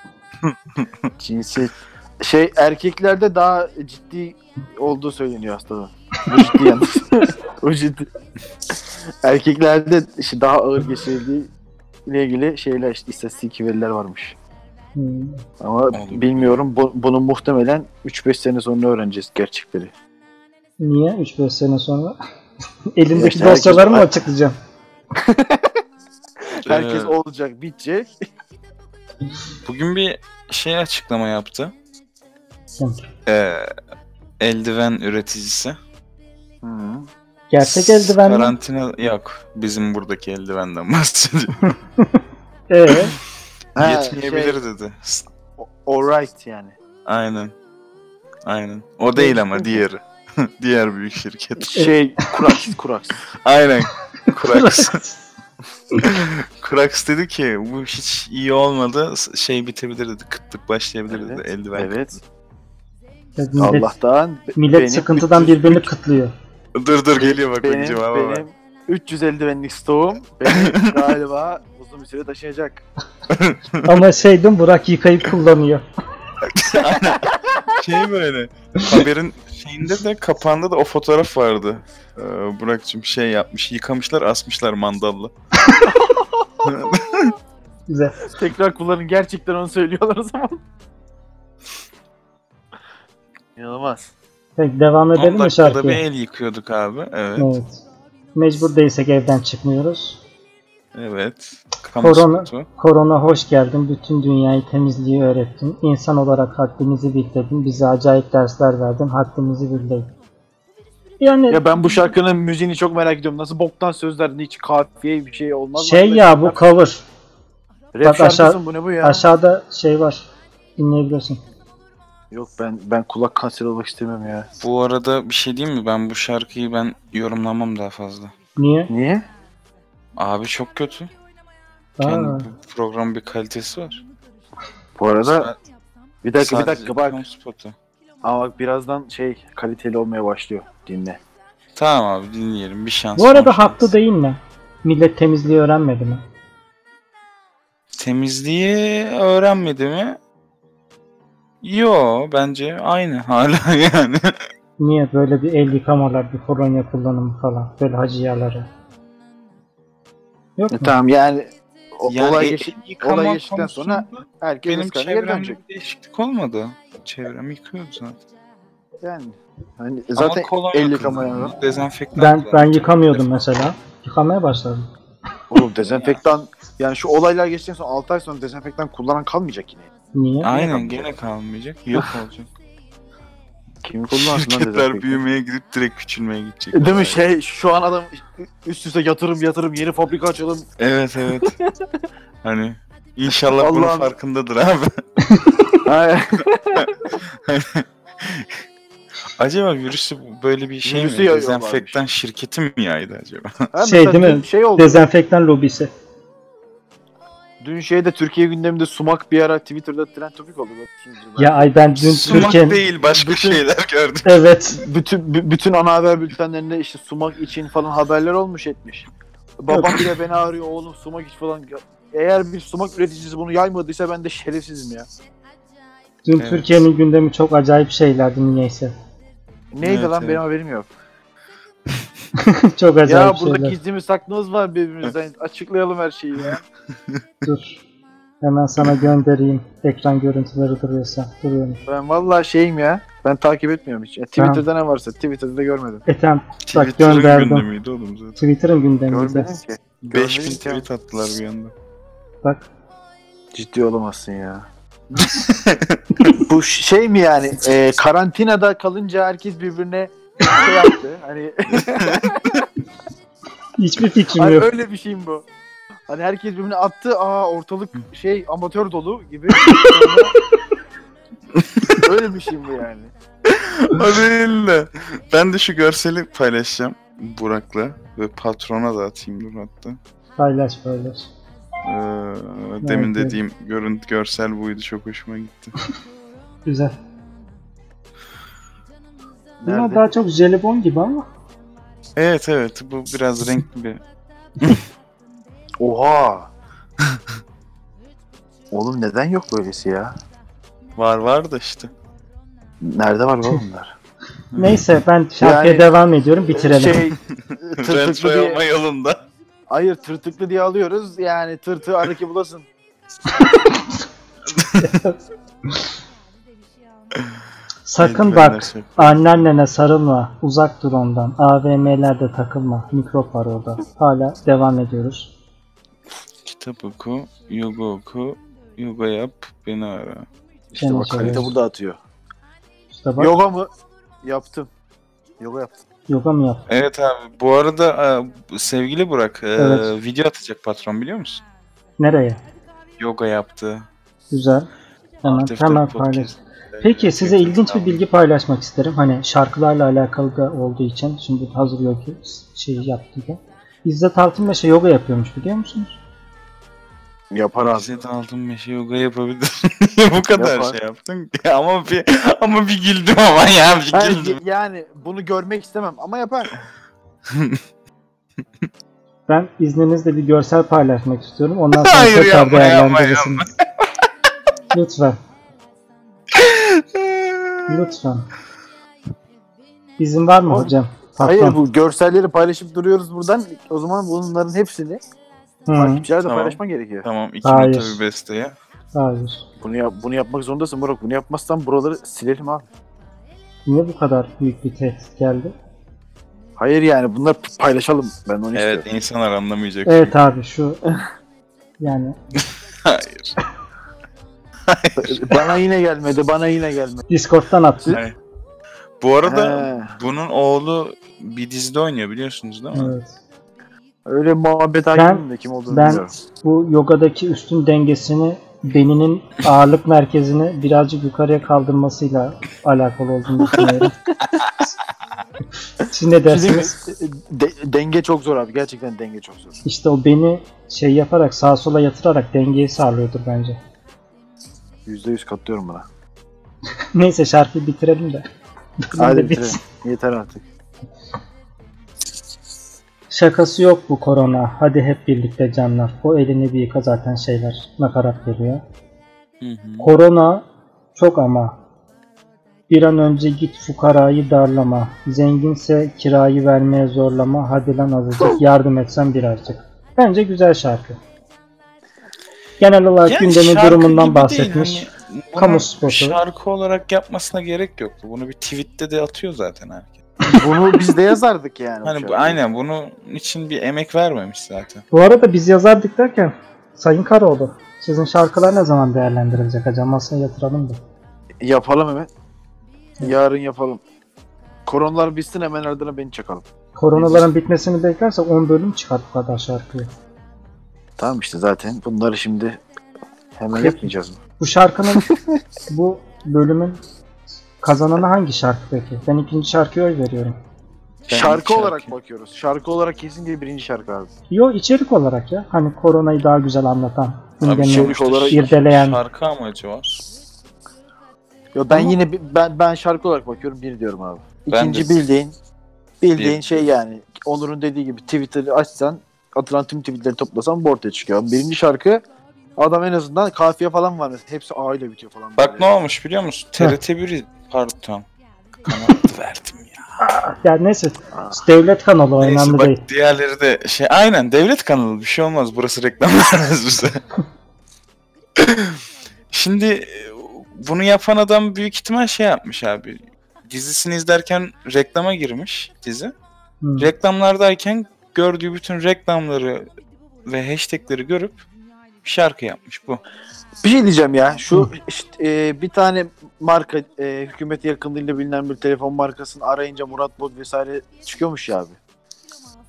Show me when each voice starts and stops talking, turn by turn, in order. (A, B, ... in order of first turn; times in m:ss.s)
0:00.4-0:01.1 A
0:01.2-0:08.1 B
0:08.7-0:11.5 B
0:12.1-0:14.4 B
0:15.0-0:15.4 C
0:15.6-0:19.9 B
0:15.9-0:16.6 A
0:20.8-0:22.2 C
0:23.0-0:24.6 C
0:23.1-0:24.1 B
0:25.1-0:25.8 B
0:26.4-0:28.1 B
0:26.6-0:27.1 A
0:29.6-0:31.7 A
0:32.8-0:33.1 C
0:33.3-0:33.8 A
0:34.4-0:35.8 A
0:36.6-0:37.1 B
0:37.5-0:38.6 C
0:37.6-0:41.8 A
0:42.0-0:43.2 C
0:42.9-0:43.2 A
0:43.8-0:44.6 B
0:43.8-0:45.3 A
0:45.6-0:46.8 B
0:47.1-0:47.5 A
0:48.4-0:51.9 A
0:51.6-0:53.3 B
0:51.8-0:52.4 C
0:53.4-0:55.0 A
0:54.3-0:55.2 C
0:56.0-1:02.0 A
1:01.1-1:02.2 B
1:03.4-1:03.9 C
1:03.6-1:05.9 B
1:04.6-1:06.3 C
1:06.8-1:08.4 A
1:07.2-1:12.8 B
1:10.5-1:11.1 A
1:13.3-1:14.0 A
1:13.8-1:15.8 C
1:16.4-1:25.3 A
1:25.9-1:26.7 B
1:26.6-1:27.3 A
1:27.9-1:28.2 C
1:28.3-1:30.6 B
1:33.6-1:34.1 B
1:34.6-1:36.0 C
1:35.2-1:37.6 A
1:37.4-1:37.8 C
1:38.4-1:40.2 C
1:40.9-1:42.7 A
1:42.0-1:50.1 C
1:51.2-1:51.6 C
1:51.5-1:56.6 B
1:55.8-1:57.0 C
1:57.9-1:59.3 B
1:58.0-2:01.4 C
2:02.3-2:04.5 B
2:04.6-2:08.3 A
2:08.6-2:08.9 C
2:08.9-2:09.3 B
2:10.2-2:11.1 A
2:12.0-2:12.5 C
2:12.0-2:14.0 A
2:15.0-2:15.5 B
2:15.3-2:15.6 A
2:16.2-2:17.2 B
2:16.4-2:17.8 A
2:18.2-2:21.2 B
2:21.8-2:23.9 A
2:23.2-2:26.2 C
2:28.0-2:30.2 A
2:31.6-2:34.4 A
2:34.8-2:38.7 C
2:40.6-2:40.9 C
2:40.7-2:45.6 B
2:42.1-2:48.2 A
2:49.0-2:51.6 B
2:50.2-2:53.3 A
2:52.2-2:54.9 C
2:55.5-2:59.9 B
2:55.9-2:56.2 A
3:00.2-3:00.6 C
3:00.4-3:02.5 A
3:00.5-3:01.1 B
3:03.8-3:05.2 B
3:04.1-3:07.2 A
3:06.7-3:10.7 B
3:10.8-3:11.6 A
3:11.3-3:11.7 B
3:12.4-3:15.0 A
3:13.6-3:14.1 B
3:15.3-3:15.8 C
3:15.8-3:17.0 B
3:16.8-3:18.6 A
3:19.4-3:23.7 A
3:20.8-3:22.0 B
3:23.7-3:25.1 B
3:23.8-3:25.9 C
3:27.6-3:31.7 B
3:31.4-3:32.8 C
3:32.0-3:34.3 A
3:32.3-3:32.6 B
3:33.1-3:33.6 B
3:34.2-3:34.8 C
3:34.7-3:39.1 B
3:39.6-3:45.1 B
3:39.7-3:40.0 C
3:46.2-3:49.0 C
3:46.4-3:46.7 A
3:49.7-3:50.9 B
3:49.8-3:50.4 A
3:52.4-3:53.8 C
3:53.0-3:56.6 B
3:57.4-3:57.8 C
3:58.4-4:01.8 C
4:01.9-4:06.0 B
4:04.4-4:04.6 C
4:06.1-4:07.7 C
4:06.6-4:08.4 A
4:08.4-4:09.5 C
4:09.1-4:10.8 B
4:10.1-4:11.7 A
4:13.5-4:14.7 B
4:15.3-4:16.0 A
4:16.4-4:22.6 B
4:21.7-4:22.6 A
4:23.8-4:24.7 C
4:24.3-4:25.4 B
4:26.1-4:30.3 B
4:31.6-4:32.0 A
4:32.0-4:33.1 B
4:33.5-4:40.0 A
4:40.4-4:41.3 C
4:41.8-4:45.7 A
4:42.8-4:43.4 C
4:46.7-4:47.0 C
4:49.6-4:50.0 B
4:49.6-4:51.3 C
4:52.2-4:54.0 A
4:55.8-4:56.5 B
4:58.7-5:00.2 B
5:01.0-5:01.9 A
5:02.8-5:03.9 B
5:04.5-5:04.8 A
5:04.6-5:07.1 C
5:05.4-5:05.9 B
5:06.5-5:08.6 B
5:07.8-5:09.2 A
5:09.7-5:12.7 B
5:14.5-5:14.9 A
5:14.8-5:15.2 C
5:17.9-5:25.3 C
5:18.0-5:19.5 A
5:26.5-5:30.3 A
5:30.7-5:32.0 B
5:30.8-5:31.5 C
5:32.9-5:33.3 C
5:33.2-5:33.7 B
5:34.2-5:34.7 B
5:35.4-5:35.8 B
5:36.1-5:36.7 C
5:36.7-5:41.4 A
5:39.6-5:39.9 C
5:42.0-5:42.4 C
5:43.0-5:43.9 A
5:44.3-5:44.7 C
5:45.2-5:48.0 A
5:45.2-5:46.3 C
5:46.8-5:56.0 C
5:57.3-5:57.9 B
5:57.7-6:04.4 A
6:00.3-6:00.8 B
6:03.9-6:06.5 B
6:07.3-6:07.6 A
6:09.3-6:13.4 C
6:11.8-6:13.5 A
6:14.7-6:15.2 C
6:16.3-6:17.6 A
6:17.7-6:18.3 C
6:20.0-6:21.6 C
6:20.4-6:25.0 B
6:25.7-6:26.0 C
6:25.7-6:27.1 B
6:26.2-6:28.6 A
6:27.4-6:28.0 C
6:28.9-6:29.4 C
6:29.6-6:32.7 B
6:33.7-6:35.5 C
6:36.6-6:38.9 B
6:38.5-6:40.1 A
6:39.9-6:40.8 C
6:41.8-6:42.2 C
6:42.4-6:43.3 A
6:44.7-6:45.4 A
6:45.0-6:47.0 B
6:47.1-6:48.0 C
6:47.9-6:48.2 A
6:49.0-6:53.0 A
6:49.2-6:49.9 B
6:52.7-6:53.2 C
6:54.1-6:56.1 B
6:54.9-7:03.9 C
7:05.9-7:06.7 C
7:06.2-7:09.6 B
7:09.6-7:13.6 C
7:14.9-7:15.9 B
7:16.9-7:18.3 C
7:18.9-7:19.6 C
7:19.0-7:20.4 B
7:23.1-7:28.6 C
7:29.4-7:29.9 A
7:29.8-7:31.6 C
7:32.7-7:41.0 C
7:42.6-7:46.2 C
7:43.0-7:50.0 A
7:50.3-7:52.4 B
7:51.8-7:54.8 A
7:54.9-8:00.8 C
8:01.4-8:02.1 B
8:03.0-8:03.8 B
8:04.7-8:07.3 B
8:06.8-8:09.9 C
8:11.0-8:12.6 B
8:13.4-8:14.2 B
8:13.5-8:13.9 C
8:14.4-8:15.1 C
8:14.9-8:15.4 B
8:15.7-8:16.8 C
8:17.6-8:20.4 C
8:21.0-8:21.9 A
8:21.1-8:24.1 B
8:24.3-8:29.0 C
8:27.4-8:30.0 A
8:27.6-8:28.5 B
8:31.6-8:35.4 B
8:34.5-8:34.9 A
8:36.0-8:42.0 B
8:36.2-8:36.4 A
8:42.6-8:45.7 B
8:45.4-8:48.1 A
8:48.6-8:49.8 A
8:50.0-8:52.8 C
8:52.2-8:57.0 A
8:58.4-8:58.8 A
8:59.3-9:06.1 A
9:06.6-9:06.9 C
9:06.8-9:09.7 A
9:10.3-9:11.4 A
9:12.0-9:13.0 A
9:13.6-9:21.8 B